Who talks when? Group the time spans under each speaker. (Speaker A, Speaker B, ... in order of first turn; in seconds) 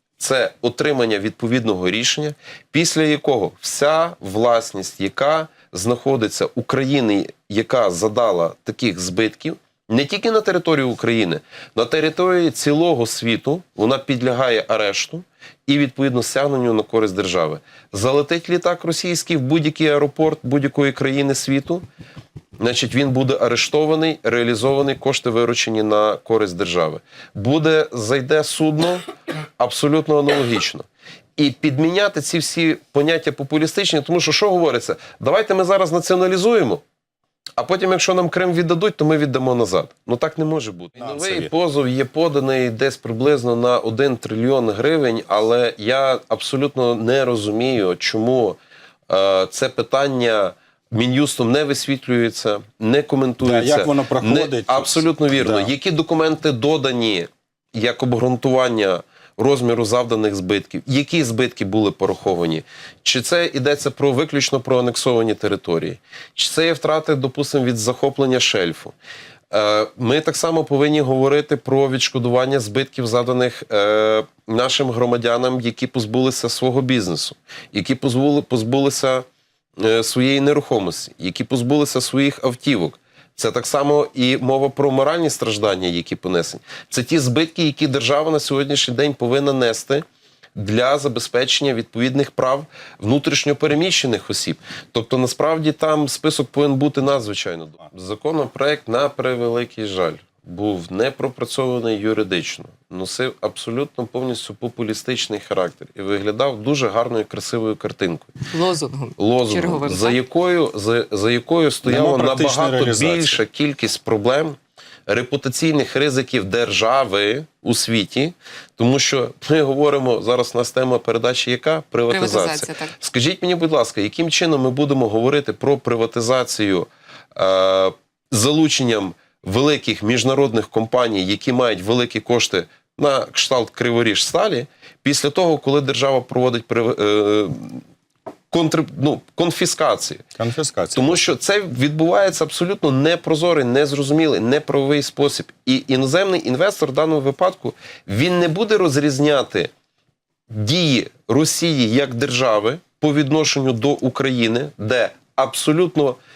Speaker A: 0.2-21.8, 22.6-29.1, 29.6-30.9, 31.4-36.8, 37.6-48.6, 49.1-68.9, 69.5-79.2, 79.8-90.0, 90.5-108.3, 109.2-137.8, 138.5-140.2, 140.9-149.7, 150.5-156.2
Speaker B: 41.0-41.5, 53.4-55.7, 111.8-113.4, 140.4-141.2
Speaker C: 108.5-110.2, 122.1-122.9